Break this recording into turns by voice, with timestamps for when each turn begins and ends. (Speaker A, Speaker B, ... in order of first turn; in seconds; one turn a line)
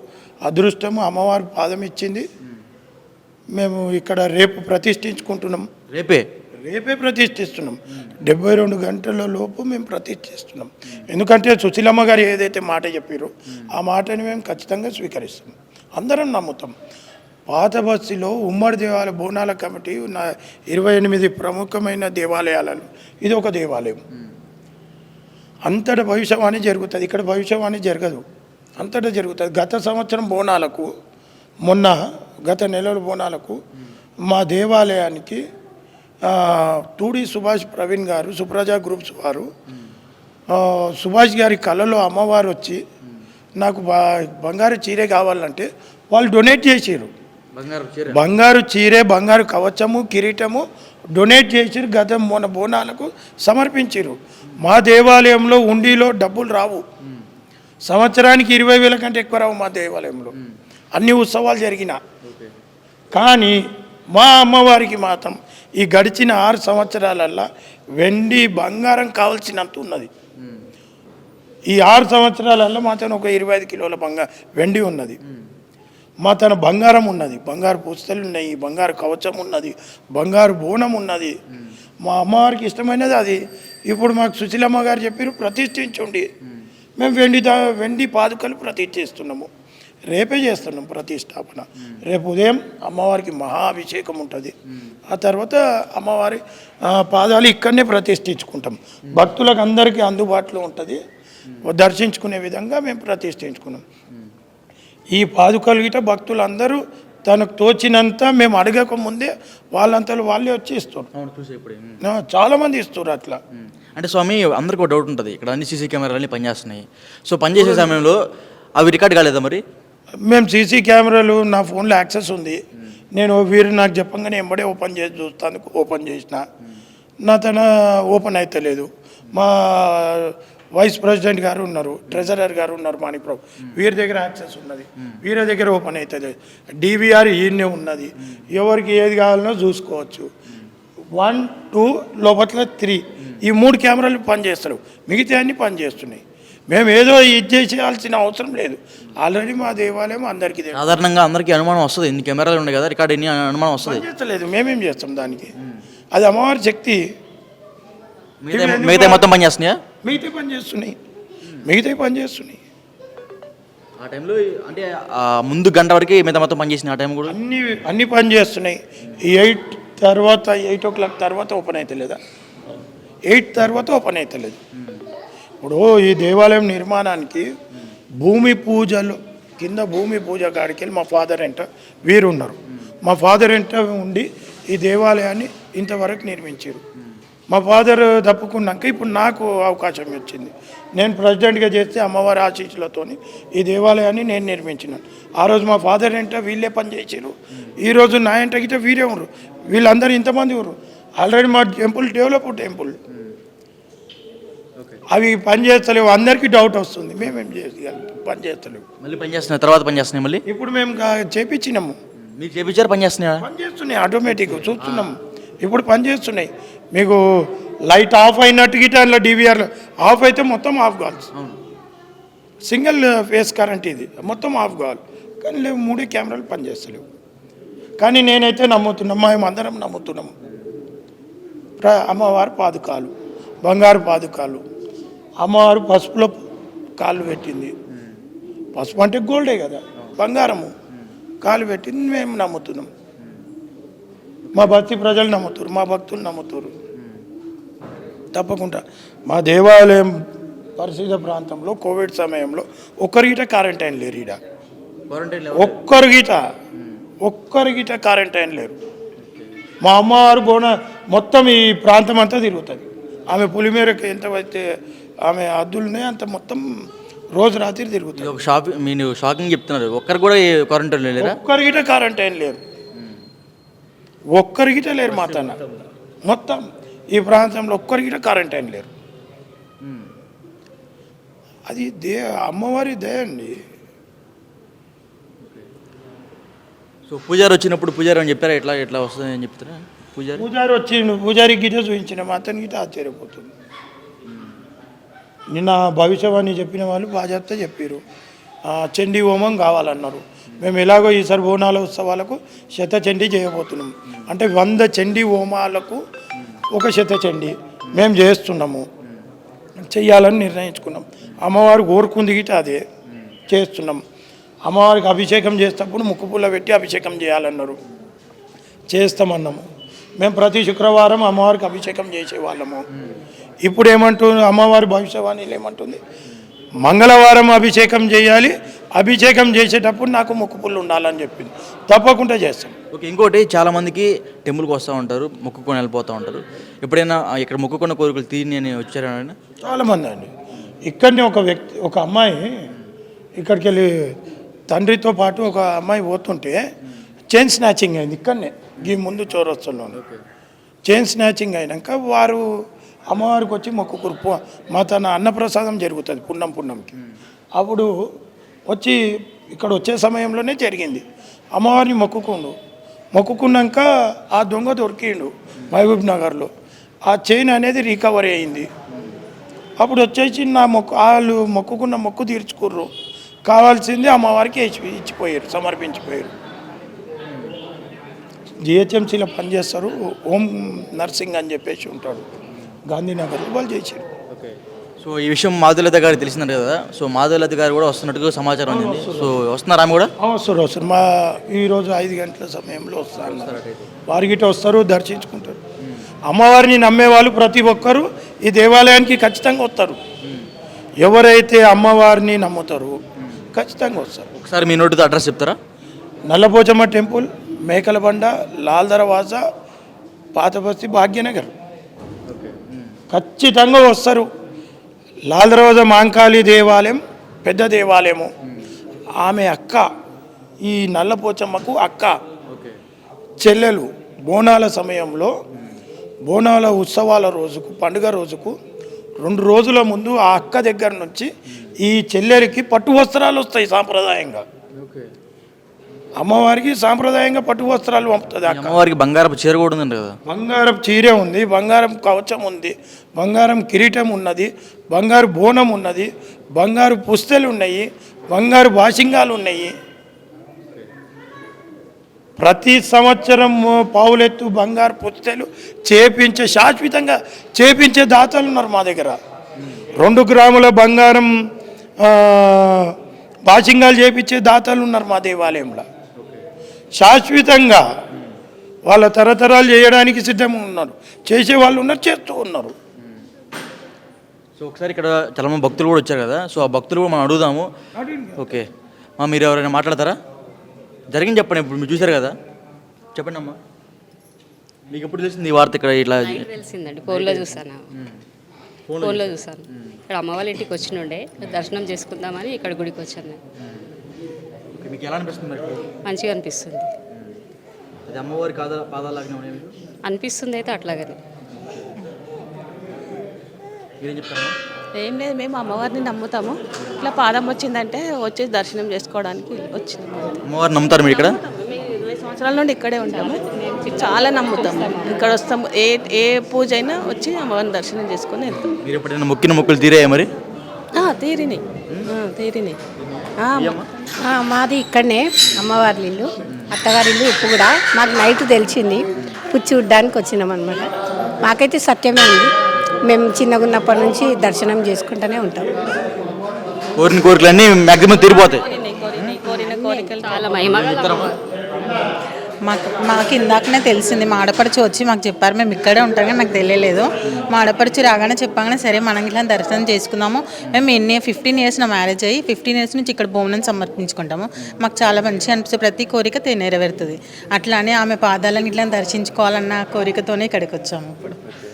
Speaker A: 0.4-2.3
Speaker A: 3.5-5.7
Speaker B: 5.9-6.2
Speaker A: 6.6-16.7
Speaker A: 17.5-24.0
Speaker A: 25.6-28.2
Speaker A: 28.8-30.9
Speaker A: 31.6-33.6
Speaker A: 34.3-35.4
Speaker A: 36.2-39.5
Speaker A: 40.5-42.8
Speaker A: 43.6-47.1
Speaker B: 47.5-48.2
Speaker A: 48.1-56.8
Speaker A: 57.9-60.3
Speaker A: 60.9-62.0
Speaker B: 62.2-62.5
Speaker A: 63.1-63.6
Speaker A: 64.1-67.5
Speaker A: 68.0-70.1
Speaker A: 71.7-75.2
Speaker A: 76.2-81.3
Speaker A: 82.0-86.3
Speaker A: 87.0-89.5
Speaker A: 90.1-94.5
Speaker A: 95.1-101.0
Speaker A: 101.6-103.8
Speaker A: 105.1-111.1
Speaker B: 111.1-112.0
Speaker A: 112.0-113.4
Speaker B: 113.9-118.2
Speaker A: 117.6-117.9
Speaker B: 118.8-119.6
Speaker A: 120.2-122.6
Speaker A: 123.1-126.4
Speaker A: 127.2-140.3
Speaker A: 141.2-150.8
Speaker B: 150.7-154.0
Speaker A: 153.8-155.5
Speaker A: 156.1-157.0
Speaker B: 158.4-159.8
Speaker A: 158.5-159.2
Speaker A: 160.0-160.9
Speaker A: 161.6-162.6
Speaker B: 164.0-167.3
Speaker A: 167.3-172.2
Speaker A: 173.3-174.6
Speaker A: 175.6-177.5
Speaker A: 178.2-186.8
Speaker A: 187.5-202.9
Speaker A: 205.1-208.8
Speaker B: 209.0-210.4
Speaker A: 210.4-212.0
Speaker B: 212.2-213.4
Speaker A: 213.4-217.2
Speaker B: 214.5-215.1
Speaker A: 217.8-221.3
Speaker A: 222.7-227.0
Speaker A: 228.0-230.3
Speaker A: 231.8-233.1
Speaker A: 233.6-234.6
Speaker A: 235.4-236.3
Speaker A: 237.0-237.7
Speaker A: 238.8-240.7
Speaker A: 241.4-242.9
Speaker A: 244.5-246.7
Speaker A: 248.3-250.1
Speaker A: 250.8-254.4
Speaker B: 255.1-255.8
Speaker A: 255.5-256.4
Speaker A: 257.2-258.8
Speaker B: 259.2-259.5
Speaker A: 259.8-264.6
Speaker A: 265.3-266.6
Speaker A: 267.3-268.3
Speaker B: 268.1-271.4
Speaker A: 271.2-272.6
Speaker A: 274.3-275.6
Speaker B: 275.1-275.7
Speaker A: 276.2-278.9
Speaker B: 279.8-280.1
Speaker A: 281.6-283.5
Speaker B: 287.1-290.4
Speaker A: 290.4-293.5
Speaker A: 295.5-298.0
Speaker A: 298.7-306.0
Speaker A: 306.7-308.9
Speaker A: 309.8-312.8
Speaker A: 313.5-314.0
Speaker A: 314.6-317.8
Speaker A: 318.9-319.6
Speaker A: 320.2-322.8
Speaker A: 323.6-326.0
Speaker A: 326.8-332.7
Speaker B: 332.9-339.3
Speaker A: 339.6-340.3
Speaker A: 340.8-342.5
Speaker A: 343.4-343.9
Speaker A: 344.7-346.6
Speaker A: 347.3-350.0
Speaker B: 349.9-350.2
Speaker A: 350.9-352.4
Speaker A: 353.1-356.9
Speaker A: 357.5-357.9
Speaker A: 358.7-359.0
Speaker A: 359.5-362.6
Speaker A: 363.1-366.5
Speaker A: 367.1-368.7
Speaker A: 369.8-372.9
Speaker A: 373.4-376.3
Speaker A: 378.6-382.2
Speaker A: 382.9-384.1
Speaker B: 384.3-390.1
Speaker A: 388.7-389.3
Speaker A: 390.2-393.6
Speaker B: 393.2-393.9
Speaker A: 394.1-395.6
Speaker A: 396.3-400.0
Speaker A: 401.0-403.0
Speaker A: 403.5-404.3
Speaker B: 404.4-405.6
Speaker A: 406.3-409.4
Speaker A: 410.3-411.5
Speaker B: 412.3-412.9
Speaker A: 413.1-414.3
Speaker A: 415.3-418.3
Speaker A: 419.2-419.9
Speaker A: 420.6-422.2
Speaker B: 422.5-422.8
Speaker A: 423.4-425.3
Speaker A: 426.2-428.5
Speaker A: 429.2-434.4
Speaker B: 434.7-435.1
Speaker A: 436.2-438.8
Speaker B: 438.4-440.1
Speaker A: 440.3-449.7
Speaker A: 452.4-459.2
Speaker A: 460.0-461.3
Speaker A: 462.0-462.9
Speaker A: 463.5-465.8
Speaker A: 466.9-467.9
Speaker A: 468.9-472.7
Speaker B: 474.6-477.7
Speaker A: 478.0-478.6
Speaker B: 478.4-478.6
Speaker B: 479.2-480.2
Speaker B: 481.1-482.3
Speaker B: 483.1-483.6
Speaker B: 484.9-486.5
Speaker C: 486.2-487.8
Speaker B: 487.0-488.1
Speaker B: 488.9-489.5
Speaker C: 489.0-493.4
Speaker B: 494.7-495.9
Speaker C: 496.0-496.9
Speaker B: 498.1-499.8
Speaker C: 500.0-501.2
Speaker B: 504.0-504.6
Speaker D: 504.9-510.3
Speaker B: 510.4-511.4
Speaker D: 511.1-518.7
Speaker B: 518.8-520.3
Speaker D: 520.9-522.8
Speaker D: 523.4-523.8
Speaker B: 523.5-523.9
Speaker E: 524.2-530.9
Speaker E: 531.4-535.7
Speaker B: 537.0-538.6
Speaker D: 538.8-540.5
Speaker C: 539.7-541.3
Speaker B: 540.6-541.3
Speaker F: 542.6-561.4